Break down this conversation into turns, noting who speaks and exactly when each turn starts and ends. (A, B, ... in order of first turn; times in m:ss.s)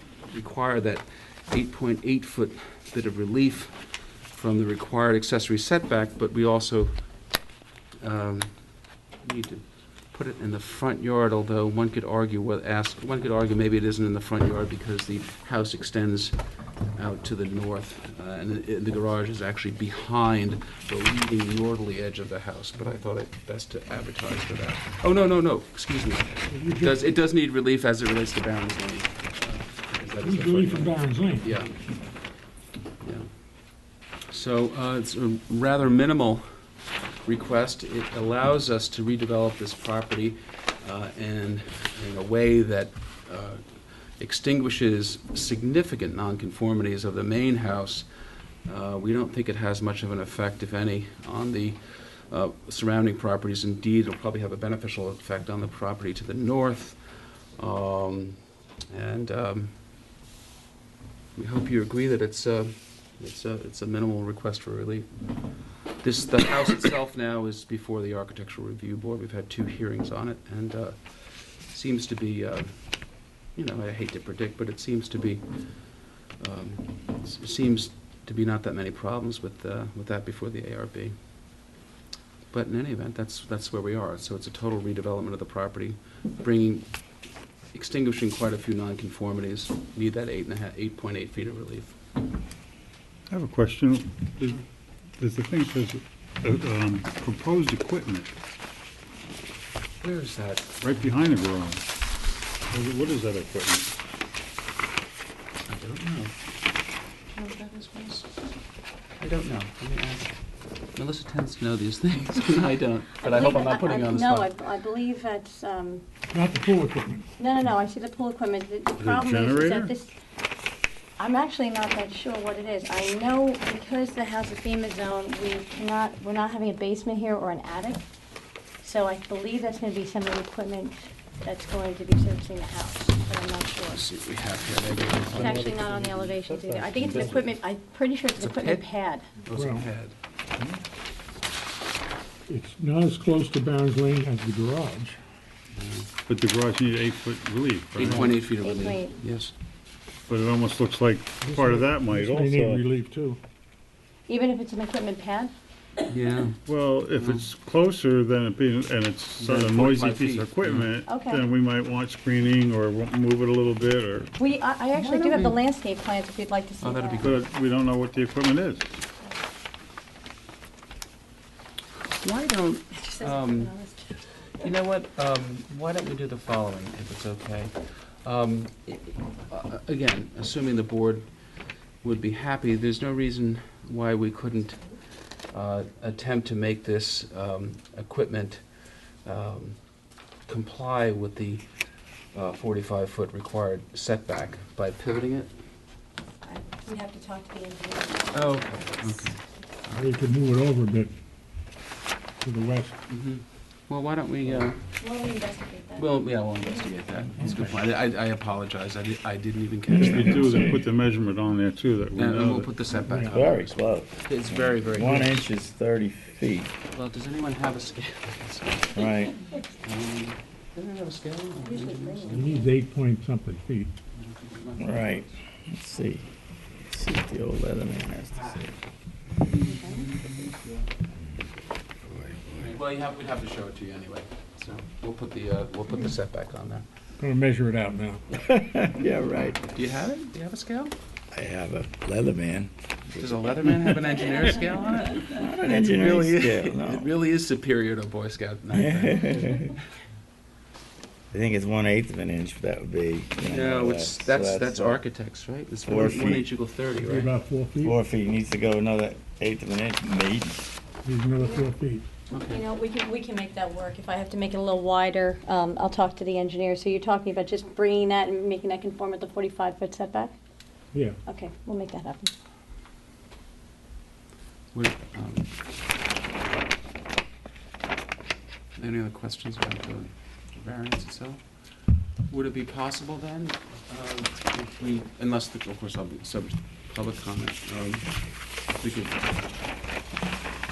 0:00.3-0:06.9 A
0:08.0-0:08.6 A
0:09.2-0:16.4 A
0:17.0-0:31.8 A
0:26.5-0:27.0 B
0:30.2-0:31.6 B
0:33.0-0:33.3 A
0:34.3-0:36.5 A
0:37.2-0:43.6 A
0:44.2-0:48.1 A
0:48.7-0:57.0 A
0:57.6-0:58.4 A
0:58.9-0:59.8 A
1:01.4-1:05.1 A
1:06.0-1:11.0 A
1:11.7-1:12.8 A
1:13.5-1:21.2 A
1:22.5-1:26.9 A
1:27.7-1:32.0 A
1:33.3-1:34.6 C
1:35.2-1:38.3 C
1:40.0-1:41.1 A
1:40.8-1:41.8 C
1:42.7-1:43.9 C
1:45.7-1:46.4 A
1:47.4-1:48.3 A
1:49.2-1:50.4 A
1:50.9-1:54.5 A
1:53.2-1:56.0 D
1:56.3-1:57.3 B
1:57.4-2:00.1 D
1:59.0-1:59.9 C
2:01.2-2:08.0 D
2:08.8-2:14.0 D
2:13.9-2:15.7 A
2:15.3-2:17.5 C
2:15.3-2:19.3 D
2:18.4-2:18.9 A
2:19.4-2:20.2 A
2:19.5-2:19.9 B
2:22.5-2:25.2 B
2:25.8-2:26.1 A
2:26.3-2:28.4 C
2:28.0-2:29.5 A
2:28.6-2:29.2 D
2:30.3-2:32.8 C
2:31.4-2:33.4 B
2:34.3-2:35.5 D
2:36.1-2:36.6 A
2:36.7-2:44.3 C
2:37.1-2:37.4 A
2:39.4-2:40.9 A
2:41.1-2:41.4 D
2:44.4-2:47.2 D
2:45.0-2:45.6 A
2:46.8-2:47.4 A
2:47.2-2:48.8 C
2:52.2-2:53.7 A
2:53.1-2:54.1 D
2:54.6-3:01.3 A
3:02.0-3:04.8 A
3:05.5-3:08.6 A
3:09.2-3:09.8 A
3:10.5-3:11.6 A
3:12.3-3:15.5 A
3:16.4-3:19.4 D
3:18.3-3:19.4 A
3:19.9-3:21.1 B
3:22.4-3:23.0 B
3:23.1-3:24.9 A
3:25.0-3:26.1 D
3:26.0-3:30.6 A
3:27.4-3:27.7 B
3:30.0-3:30.8 E
3:30.0-3:32.7 C
3:32.2-3:35.4 A
3:33.0-3:33.4 B
3:33.2-3:36.7 E
3:36.9-3:39.1 A
3:39.0-3:39.4 E
3:39.8-3:42.6 A
3:41.6-3:42.7 D
3:42.3-3:43.9 B
3:44.1-3:45.4 A
3:44.8-3:46.3 E
3:46.9-3:48.7 E
3:48.4-3:48.7 A
3:49.4-3:50.9 A
3:49.5-3:50.1 D
3:52.1-3:52.6 E
3:52.6-3:56.9 A
3:57.2-3:58.2 B
3:58.4-3:59.6 E
3:59.6-4:01.0 A
4:01.3-4:04.1 E
4:03.2-4:09.8 A
4:05.2-4:07.1 E
4:08.7-4:09.7 E
4:11.3-4:15.0 E
4:13.4-4:17.3 A
4:15.9-4:16.5 E
4:17.0-4:18.0 B
4:17.8-4:20.7 E
4:21.0-4:22.1 B
4:21.4-4:21.7 D
4:22.3-4:22.6 A
4:22.5-4:30.3 D
4:30.9-4:31.2 B
4:31.3-4:32.3 D
4:34.7-4:35.5 A
4:38.8-4:41.4 A
4:42.3-4:49.3 A